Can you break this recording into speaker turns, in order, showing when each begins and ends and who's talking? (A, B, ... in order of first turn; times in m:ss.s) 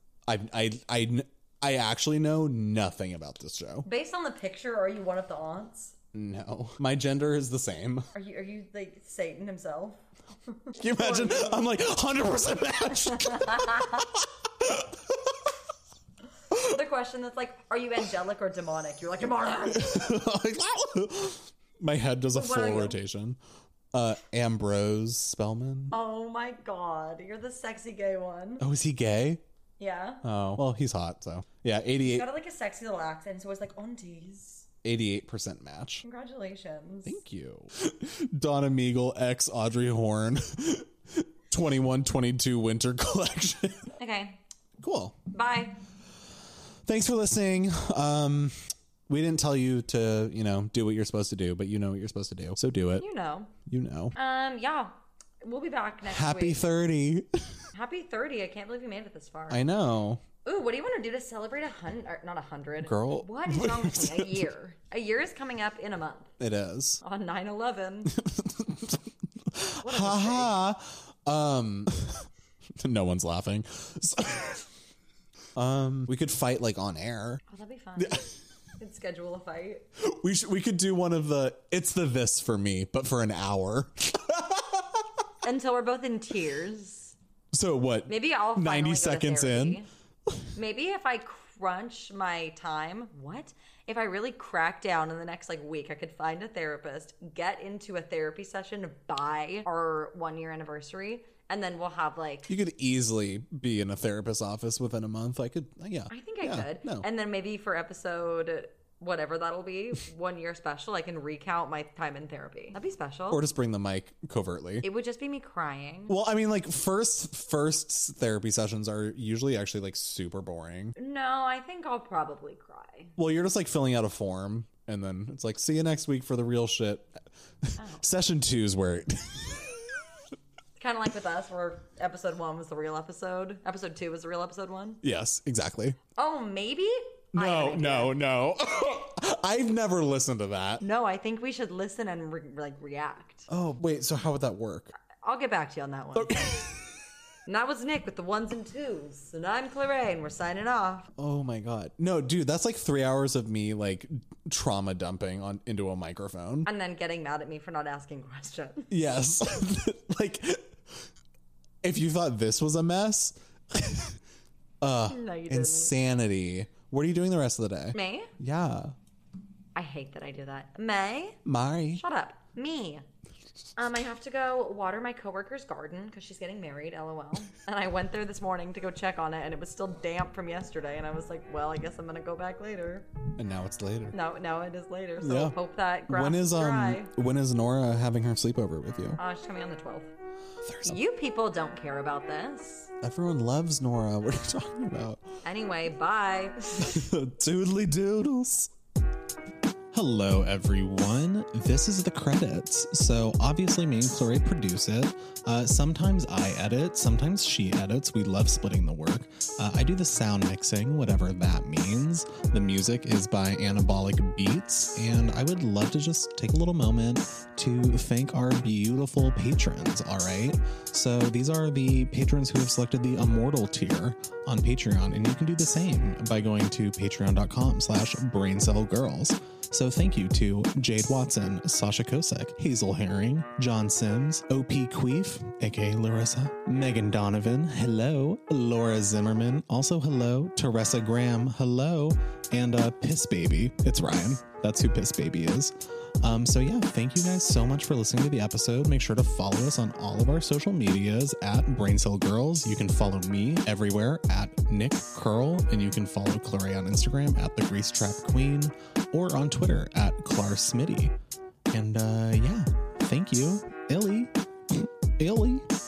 0:00.3-0:03.9 A
0:03.8-0:06.0 B
0:06.1-0:08.1 A
0:08.1-0:11.6 B
0:10.8-0:15.0 A
0:13.2-0:13.9 B
0:16.5-0:20.1 B
0:19.7-0:23.4 A
0:22.3-0:23.0 B
0:23.9-0:26.0 A
0:25.9-0:28.6 B
0:28.6-0:29.4 A
0:29.8-0:30.3 B
0:30.2-0:32.3 A
0:32.0-0:34.7 B
0:34.8-0:36.0 A
0:36.0-0:37.2 B
0:37.1-0:44.0 A
0:44.0-0:44.4 B
0:44.8-0:45.2 A
0:45.3-0:45.8 B
0:46.8-0:53.1 A
0:53.0-0:53.5 B
0:53.6-0:54.1 A
0:54.1-0:56.6 B
0:56.1-0:57.7 A
0:57.7-0:59.6 B
0:59.5-1:00.2 A
1:00.4-1:06.3 B
1:02.8-1:04.5 A
1:06.4-1:07.0 A
1:07.0-1:08.2 B
1:08.1-1:09.0 A
1:09.5-1:12.1 A
1:09.8-1:10.6 B
1:12.8-1:14.6 A
1:15.6-1:17.4 A
1:17.5-1:19.8 B
1:18.0-1:18.2 A
1:20.0-1:25.0 A
1:25.4-1:27.2 B
1:27.5-1:29.8 A
1:28.1-1:29.9 B
1:30.6-1:42.5 B
1:42.5-1:47.1 A
1:46.1-1:53.4 B
1:53.3-1:54.9 A
1:54.8-1:56.1 B
1:56.1-2:00.9 A
2:01.0-2:03.2 B
2:03.2-2:07.2 A
2:07.8-2:08.1 B
2:08.0-2:09.9 A
2:10.8-2:15.0 B
2:15.0-2:16.0 A
2:16.2-2:18.2 B
2:17.4-2:20.8 A
2:20.8-2:23.5 B
2:23.5-2:24.9 A
2:25.2-2:26.6 B
2:26.2-2:26.8 A
2:27.5-2:31.1 B
2:31.2-2:36.7 A
2:36.7-2:38.9 B
2:38.9-2:40.8 A
2:41.8-2:44.2 A
2:44.8-2:49.0 A
2:45.1-2:46.0 B
2:47.9-2:48.3 B
2:49.8-2:51.4 B
2:51.4-2:52.0 A
2:51.9-2:53.0 B
2:53.8-3:03.1 B
3:03.4-3:04.2 A
3:04.1-3:07.1 B
3:05.2-3:05.6 A
3:06.1-3:09.2 A
3:09.2-3:10.1 B
3:10.7-3:11.0 A
3:10.8-3:12.9 B
3:13.0-3:15.2 A
3:15.4-3:17.0 B
3:16.8-3:18.7 A
3:19.9-4:21.1 A
4:21.7-4:25.7 A